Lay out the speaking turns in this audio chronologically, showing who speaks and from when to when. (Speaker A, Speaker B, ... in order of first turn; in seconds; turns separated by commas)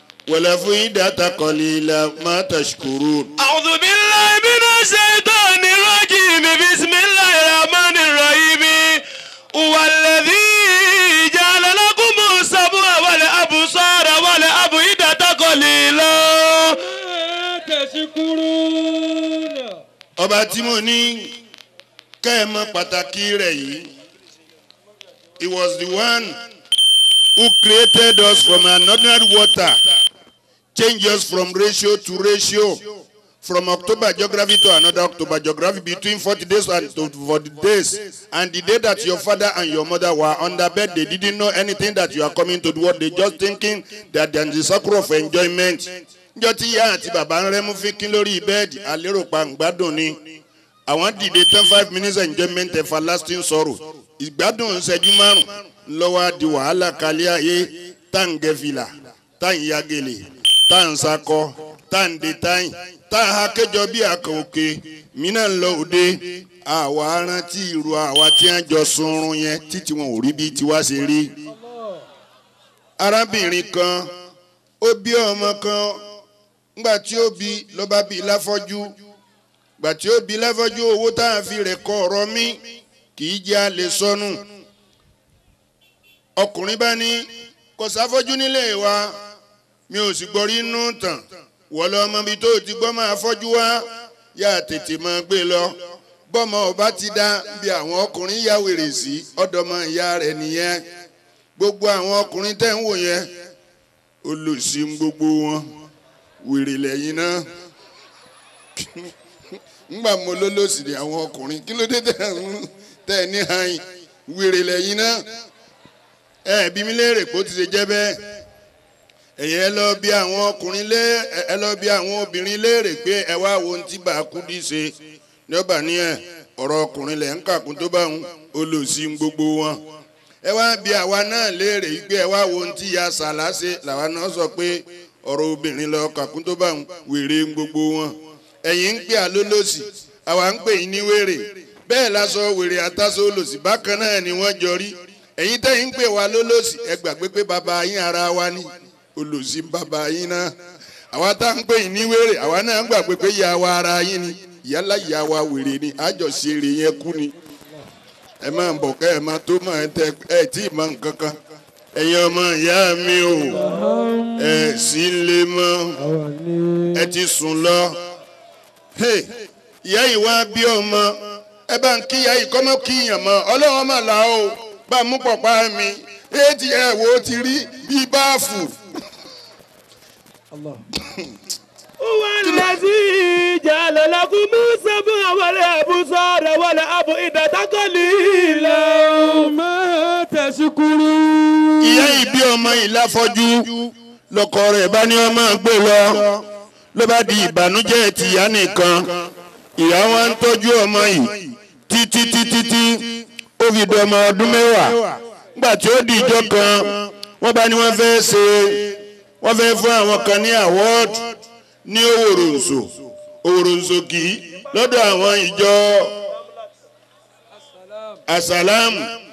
Speaker A: 0.3-3.3, Speaker B: 3.4-16.8, Speaker C: 16.7-19.8, Speaker A: 20.2-21.4, Speaker A: 22.2-23.9, Speaker A: 25.4-26.4, Speaker A: 27.4-29.8, Speaker A: 30.8-32.8, Speaker A: 33.4-71.4, Speaker A: 73.0-74.1, Speaker A: 74.8-76.0, Speaker A: 76.8-79.0, Speaker A: 79.8-82.6, Speaker A: 83.2-84.4, Speaker A: 86.4-89.2, Speaker A: 89.9-95.8, Speaker A: 96.3-100.8, Speaker A: 101.6-103.3, Speaker A: 104.2-105.7, Speaker A: 106.4-107.4, Speaker A: 108.8-109.1, Speaker A: 109.9-115.2, Speaker A: 116.5-118.2, Speaker A: 119.4-124.9, Speaker A: 125.5-129.8, Speaker A: 130.4-150.5, Speaker A: 151.1-157.3, Speaker A: 158.4-161.4, Speaker A: 161.9-163.6, Speaker C: 163.5-164.8, Speaker A: 164.4-166.0, Speaker C: 166.0-167.1, Speaker A: 166.9-168.0, Speaker A: 169.0-169.3, Speaker A: 169.8-178.8, Speaker C: 180.5-180.8, Speaker C: 182.0-192.2, Speaker A: 191.8-199.2, Speaker A: 199.8-212.9, Speaker A: 213.4-216.3, Speaker C: 214.9-215.2, Speaker C: 217.8-218.2, Speaker A: 218.3-219.1